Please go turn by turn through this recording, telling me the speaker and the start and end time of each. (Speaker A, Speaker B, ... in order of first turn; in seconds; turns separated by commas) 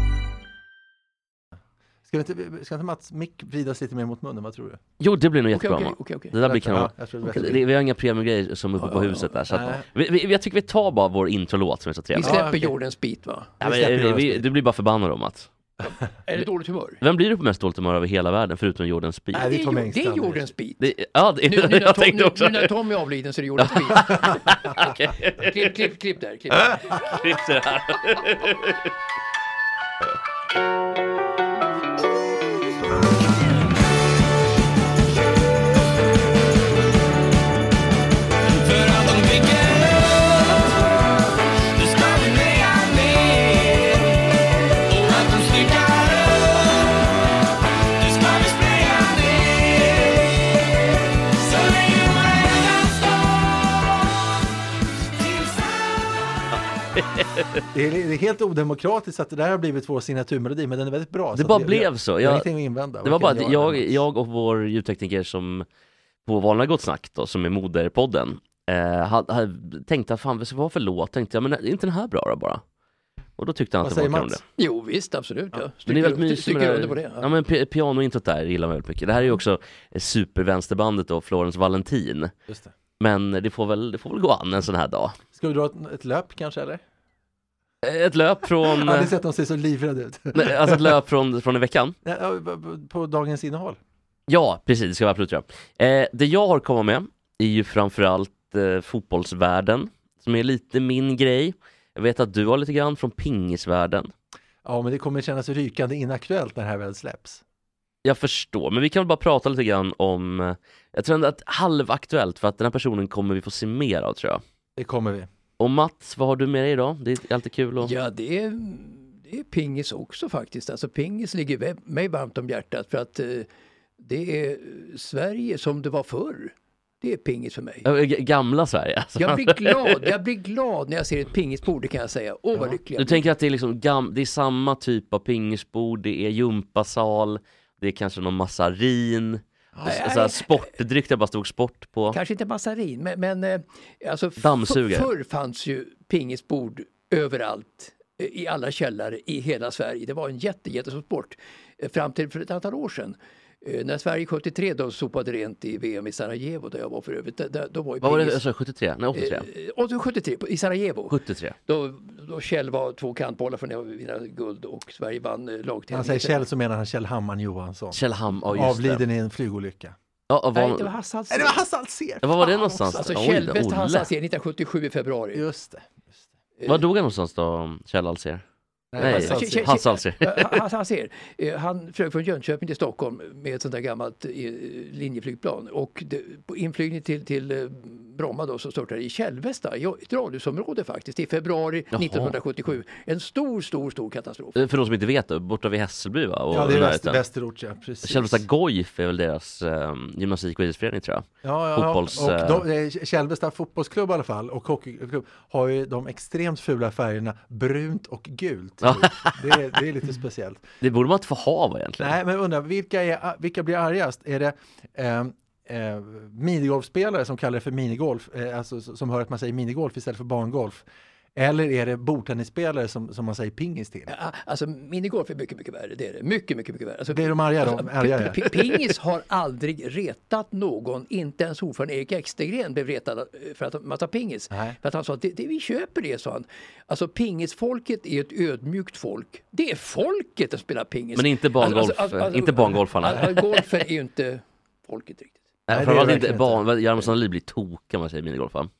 Speaker A: 2.1-4.8, Speaker B: 5.0-12.4, Speaker C: 5.5-6.3, Speaker A: 6.4-7.6, Speaker C: 8.8-9.3, Speaker A: 9.5-9.8, Speaker C: 12.2-13.5, Speaker A: 12.2-12.7, Speaker A: 13.6-14.4, Speaker B: 13.6-15.5, Speaker C: 15.8-17.0, Speaker B: 17.0-19.5, Speaker A: 19.3-20.5, Speaker C: 19.3-20.9, Speaker B: 20.8-22.7, Speaker C: 21.4-24.8, Speaker B: 23.6-25.7, Speaker C: 25.4-27.1, Speaker B: 27.0-28.9, Speaker D: 38.8-39.5, Speaker D: 41.8-43.8, Speaker D: 45.2-46.4, Speaker D: 48.2-49.1, Speaker A: 57.7-64.0, Speaker B: 61.3-62.5, Speaker B: 63.0-65.7, Speaker B: 66.2-72.6, Speaker B: 73.4-74.4, Speaker A: 73.8-74.4, Speaker C: 74.6-77.3, Speaker B: 75.9-82.3, Speaker A: 82.5-82.7, Speaker B: 83.0-85.2, Speaker A: 85.3-86.8, Speaker B: 87.8-89.1, Speaker A: 88.6-90.9, Speaker B: 90.3-92.0, Speaker A: 92.0-93.8, Speaker B: 94.3-104.1, Speaker A: 104.6-107.4, Speaker B: 108.0-114.4, Speaker A: 114.8-115.3, Speaker B: 115.6-117.9, Speaker C: 117.8-123.5, Speaker C: 124.0-127.9, Speaker B: 127.8-130.1, Speaker C: 129.2-133.2, Speaker B: 132.9-142.2, Speaker C: 139.8-140.6, Speaker C: 142.1-158.4, Speaker B: 144.4-145.1, Speaker B: 158.0-159.5, Speaker C: 159.1-166.4, Speaker B: 161.1-161.6, Speaker A: 165.9-168.0, Speaker B: 167.9-169.0, Speaker A: 168.5-169.9, Speaker B: 170.3-170.9, Speaker C: 170.5-171.6, Speaker A: 171.3-173.0, Speaker B: 172.2-174.1, Speaker C: 172.9-175.4, Speaker A: 175.3-176.1, Speaker B: 176.7-178.4, Speaker A: 178.9-179.8, Speaker B: 179.0-180.6, Speaker C: 179.0-194.6, Speaker B: 191.9-192.3, Speaker B: 194.6-197.2, Speaker A: 196.5-198.4, Speaker B: 198.0-202.6, Speaker A: 201.4-210.6, Speaker B: 208.8-209.3, Speaker B: 210.8-212.1, Speaker A: 212.0-224.1, Speaker C: 224.1-245.4, Speaker A: 227.1-228.4, Speaker A: 234.5-234.8, Speaker B: 241.1-243.6, Speaker B: 245.7-248.7, Speaker A: 245.7-246.7